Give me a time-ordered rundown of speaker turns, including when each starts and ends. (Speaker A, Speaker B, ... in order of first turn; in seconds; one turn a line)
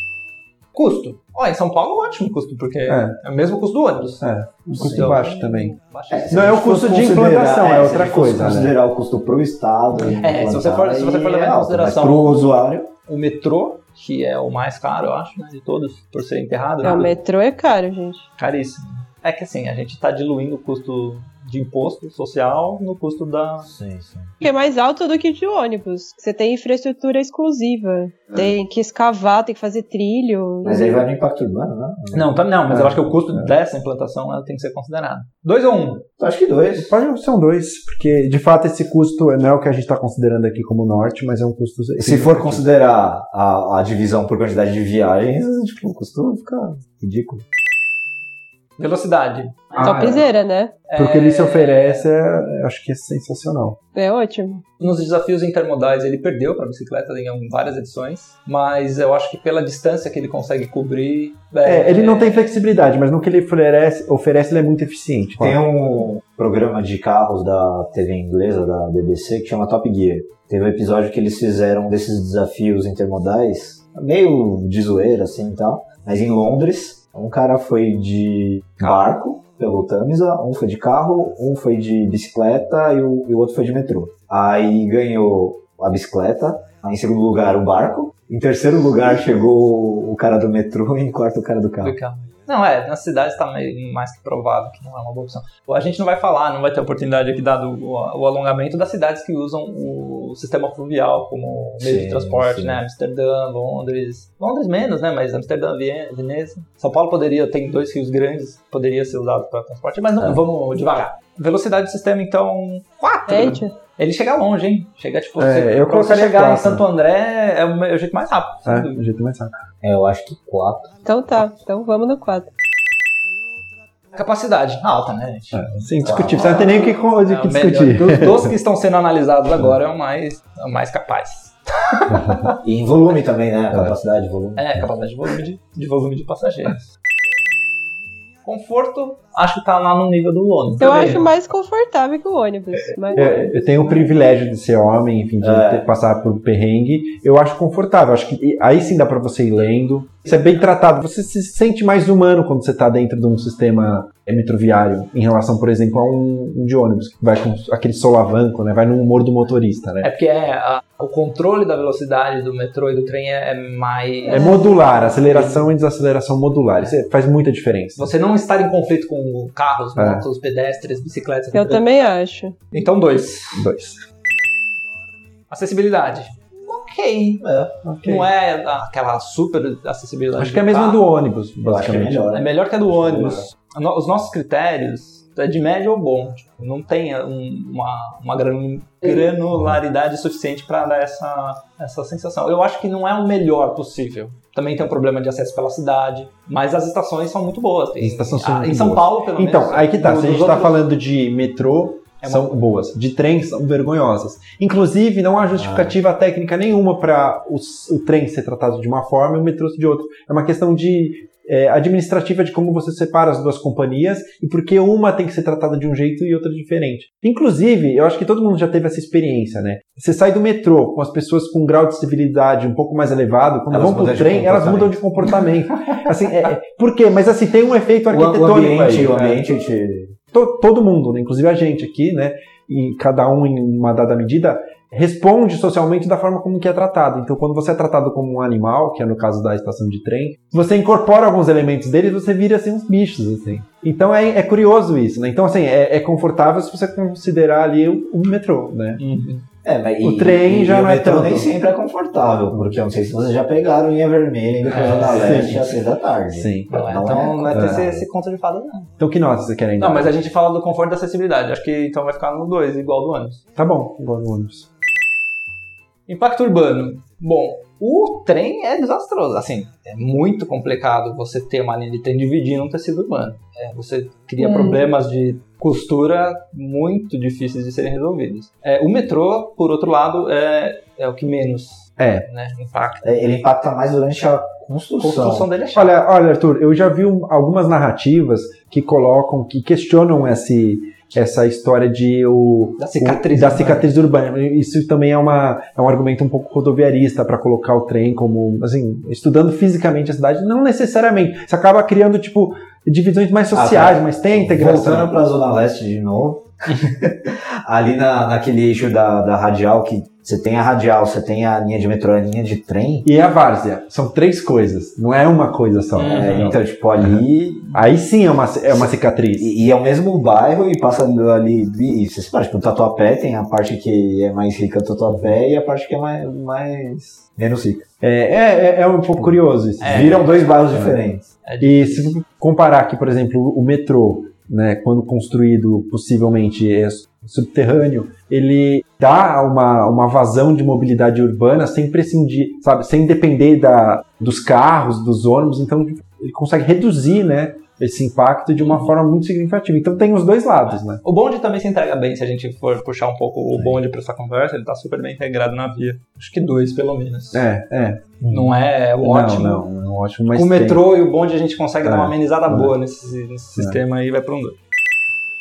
Speaker A: 0.7-6.6
Speaker B: 2.9-3.2
Speaker B: 4.2-5.8
Speaker C: 4.7-5.2
Speaker C: 6.1-12.9
Speaker B: 6.3-8.7
Speaker A: 10.2-12.4
Speaker A: 13.1-17.1
Speaker D: 16.8-18.3
Speaker A: 18.4-23.7
Speaker C: 23.6-24.3
Speaker D: 24.4-31.0
Speaker C: 30.6-32.3
Speaker A: 32.1-36.0
Speaker B: 32.7-33.5
Speaker C: 36.2-36.9
Speaker B: 36.8-42.6
Speaker C: 42.0-47.5
Speaker A: 48.8-50.2
Speaker D: 49.8-50.8
Speaker B: 49.8-50.2
Speaker A: 50.9-52.1
Speaker B: 51.0-53.8
Speaker D: 54.0-54.6
Speaker A: 54.8-62.5
Speaker B: 61.6-65.6
Speaker C: 65.4-92.0
Speaker A: 91.8-119.0
Speaker C: 101.8-102.8
Speaker D: 113.3-113.7
Speaker B: 115.4-116.8
Speaker B: 118.7-119.5
Speaker C: 119.8-120.9
Speaker D: 121.0-122.5
Speaker A: 124.1-125.7
Speaker B: 125.5-128.5
Speaker C: 126.0-126.7
Speaker A: 127.2-132.6
Speaker C: 132.6-134.9
Speaker A: 134.6-136.9
Speaker A: 138.4-141.2
Speaker D: 140.8-143.9
Speaker B: 143.1-160.1
Speaker C: 145.4-145.9
Speaker A: 160.0-165.7
Speaker B: 164.3-168.1
Speaker D: 164.3-164.8
Speaker A: 168.0-171.9
Speaker B: 170.0-170.2
Speaker D: 171.5-172.6
Speaker A: 172.7-173.6
Speaker B: 173.6-174.0
Speaker A: 175.5-177.4
Speaker C: 177.4-177.8
Speaker B: 177.8-178.3
Speaker A: 178.0-181.0
Speaker B: 180.4-182.3
Speaker C: 181.7-183.5
Speaker A: 182.3-200.8
Speaker B: 198.0-229.4
Speaker A: 202.2-202.6
Speaker C: 205.6-206.0
Speaker C: 223.7-225.0
Speaker C: 228.1-230.2
Speaker B: 230.3-249.0
Speaker A: 249.0-249.4
Speaker C: 249.6-258.0
Speaker B: 250.0-251.5
Speaker A: 254.7-255.6
Speaker B: 254.9-255.7
Speaker B: 256.3-256.9
Speaker A: 256.7-258.9
Speaker B: 257.5-257.9
Speaker B: 259.0-260.1
Speaker A: 259.8-263.4
Speaker B: 263.6-264.7
Speaker A: 266.1-283.2
Speaker D: 274.4-274.8
Speaker B: 282.0-282.3
Speaker C: 283.0-285.5
Speaker A: 285.0-286.0
Speaker B: 285.8-305.1
Speaker A: 292.8-293.9
Speaker C: 303.5-313.1
Speaker B: 313.0-317.2
Speaker A: 315.9-316.6
Speaker C: 316.1-317.8
Speaker B: 317.7-319.5
Speaker C: 318.7-327.9
Speaker B: 328.0-330.2
Speaker A: 329.8-330.5
Speaker C: 329.8-331.3
Speaker B: 330.7-331.0
Speaker A: 331.4-332.2
Speaker B: 331.6-351.0
Speaker A: 348.6-348.9
Speaker A: 350.7-357.4
Speaker B: 357.3-358.2
Speaker A: 358.3-359.6
Speaker B: 359.0-360.9
Speaker A: 360.3-364.6
Speaker B: 361.8-362.7